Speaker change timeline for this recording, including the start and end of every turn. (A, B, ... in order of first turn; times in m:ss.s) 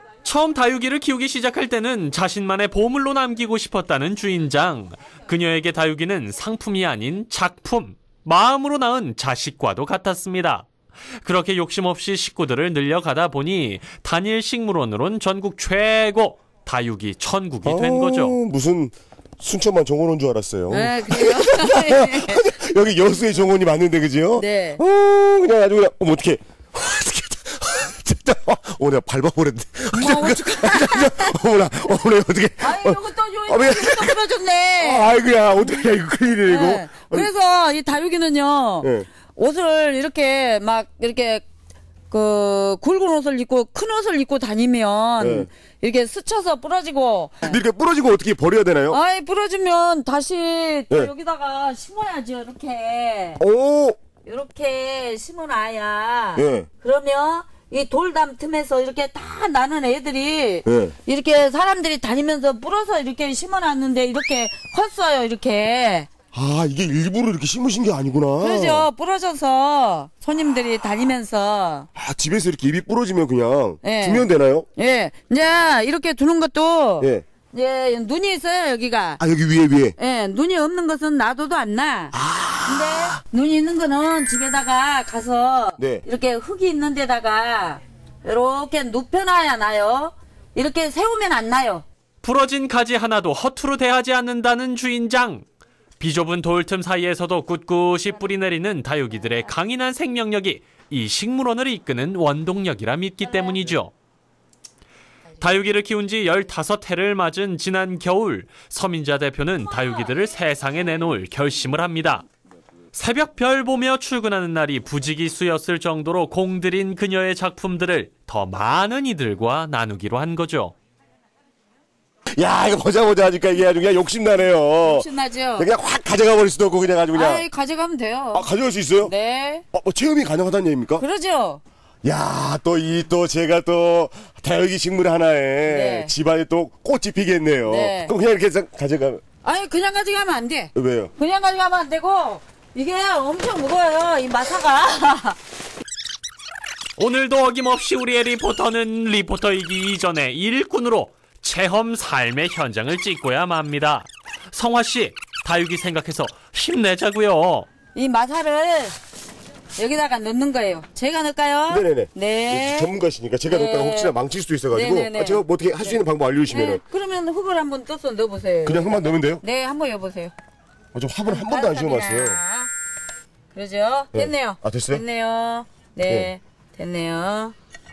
0:00.2-0:18.4 A
0:17.6-0:37.3 B
0:20.7-0:22.4 C
0:24.4-0:24.8 C
0:29.9-0:31.3 C
0:32.6-0:35.1 C
0:36.5-0:41.4 C
0:38.8-0:39.1 B
0:42.1-0:47.6 C
0:45.2-0:45.5 B
0:47.4-0:49.0 B
0:48.9-0:53.4 C
0:53.4-0:54.0 B
0:54.2-1:06.1 C
0:56.4-0:56.7 B
1:00.6-1:01.0 B
1:06.3-1:08.9 B
1:08.4-1:11.9 C
1:12.0-1:14.7 B
1:13.8-1:14.2 C
1:14.8-1:19.2 C
1:17.0-1:17.2 B
1:19.2-1:20.0 B
1:20.0-1:22.1 C
1:22.1-1:23.2 B
1:22.6-1:31.8 C
1:25.8-1:26.0 B
1:32.2-1:35.4 A
1:36.0-1:43.9 A
1:45.4-1:52.2 A
1:52.9-2:00.7 A
2:02.4-2:07.5 B
2:04.8-2:05.7 C
2:07.1-2:08.5 C
2:08.3-2:09.1 B
2:09.0-2:09.6 C
2:09.7-2:11.0 B
2:11.0-2:11.6 C
2:12.0-2:19.2 B
2:15.7-2:16.1 C
2:17.7-2:18.1 C
2:19.4-2:25.4 C
2:20.7-2:21.1 B
2:27.0-2:37.7 A
2:38.0-2:39.0 C
2:39.8-2:42.9 C
2:41.7-2:46.8 B
2:43.5-2:44.1 C
2:44.7-2:48.8 C
2:48.6-2:49.4 B
2:49.4-2:50.3 C
2:50.9-2:52.4 B
2:51.3-2:52.7 C
2:53.5-2:57.5 C
2:54.1-2:55.0 B
2:56.0-2:56.3 B